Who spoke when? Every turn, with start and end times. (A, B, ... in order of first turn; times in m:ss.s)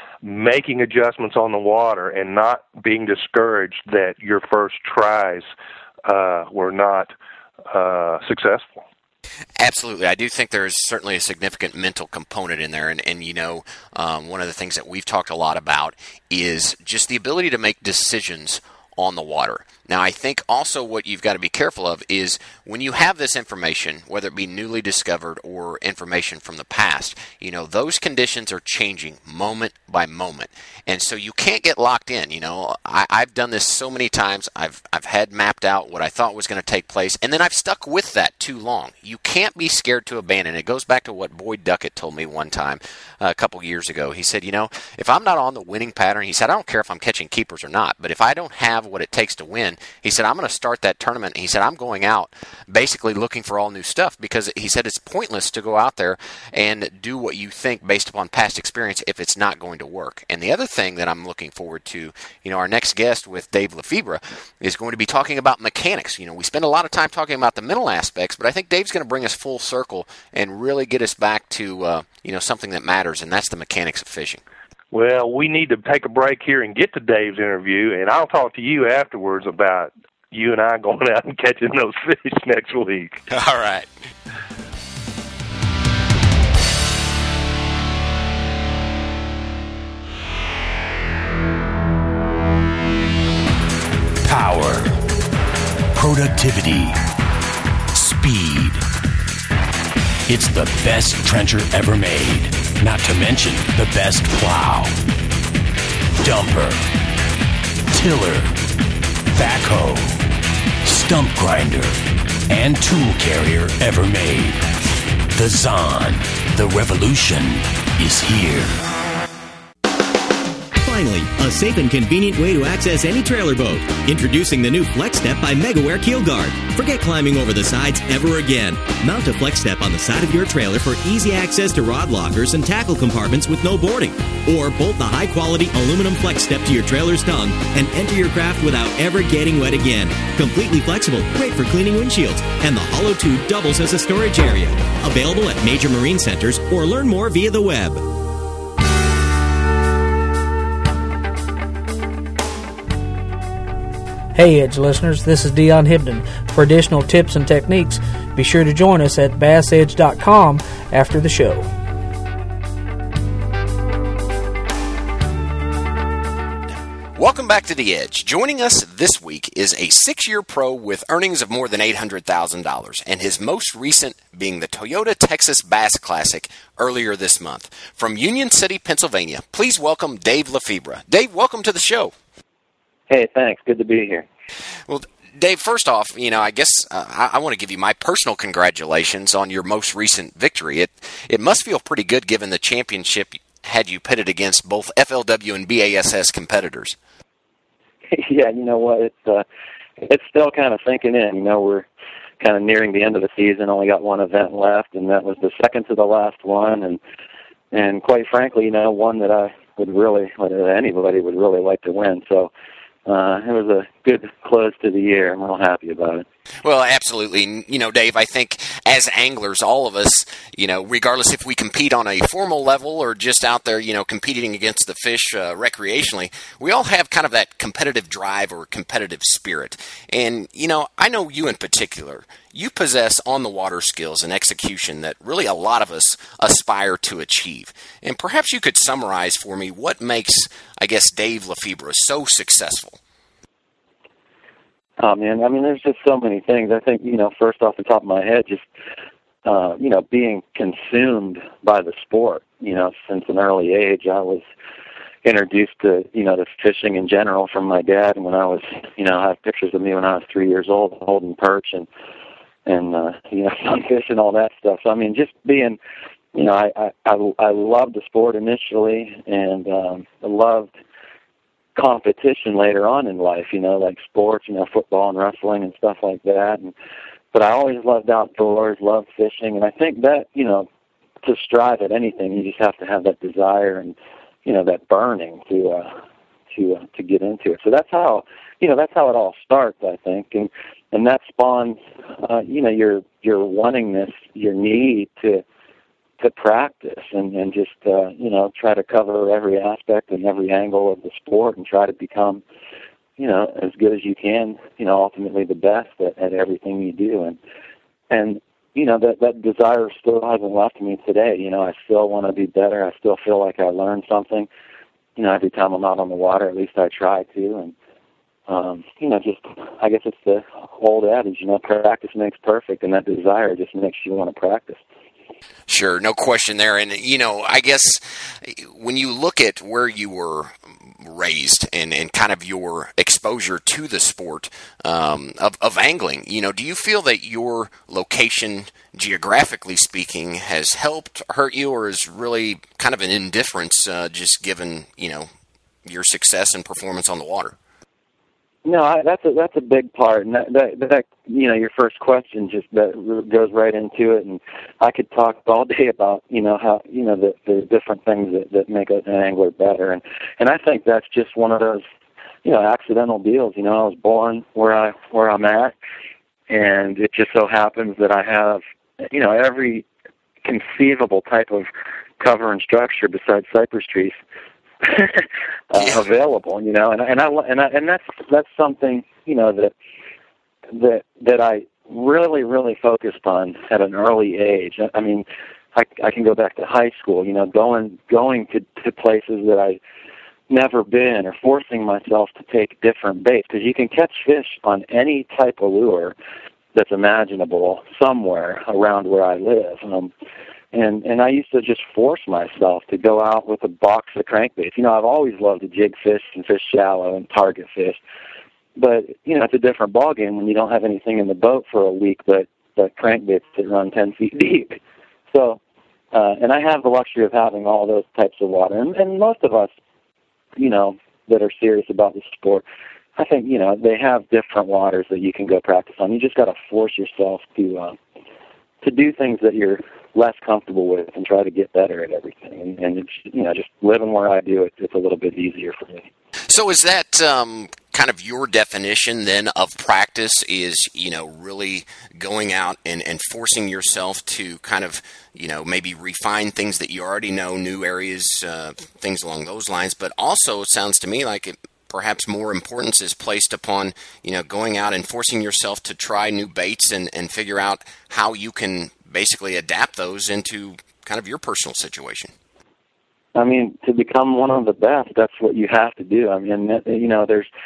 0:00.2-0:05.5 A
0:06.0-0:07.1 A
0:07.7-0:08.8 A
0:09.6-1:14.4 B
1:14.9-1:23.2 A
1:23.3-1:23.9 B
1:34.2-1:35.0 C
1:35.9-1:37.0 C
1:37.9-1:38.8 C
1:40.3-1:45.0 C
1:46.2-1:46.8 C
1:47.9-1:48.6 C
1:49.3-1:50.2 C
1:50.8-1:52.0 C
1:52.5-1:54.6 C
1:55.3-1:58.8 C
2:00.8-2:28.0 D
2:34.3-2:41.7 E
2:46.7-3:02.1 B
3:03.1-3:04.3 F
3:04.9-3:17.0 B
3:18.1-3:19.4 F
3:20.0-3:21.9 F
3:22.4-3:27.0 F
3:27.7-3:32.5 F
3:33.0-3:36.2 F
3:36.6-4:03.0 B
4:05.0-4:08.6 F
4:09.4-4:14.4 F
4:15.2-4:21.9 F
4:22.6-4:25.8 F
4:26.3-4:30.7 F
4:31.8-4:36.7 F
4:37.3-4:40.7 F
4:41.2-4:45.9 F
4:46.5-4:55.4 F
4:56.2-5:02.4 F
5:03.2-5:07.4 F
5:08.1-5:14.5 F
5:15.2-5:17.7 F
5:18.5-5:24.8 F
5:25.7-5:45.3 B
5:45.8-5:47.6 B
5:48.6-6:01.8 F
6:02.4-6:05.7 F
6:06.5-6:09.8 F
6:10.4-6:11.7 F
6:12.2-6:14.2 F
6:14.8-6:19.7 F
6:20.7-6:29.8 F
6:30.5-6:36.1 F
6:36.7-6:40.1 F
6:40.7-6:48.0 F
6:48.8-6:54.8 F
6:55.3-6:55.6 F
6:56.1-6:59.7 F
7:00.6-7:02.6 F
7:03.2-7:08.0 F
7:08.8-7:16.1 F
7:16.5-7:42.3 B
7:43.3-7:47.5 F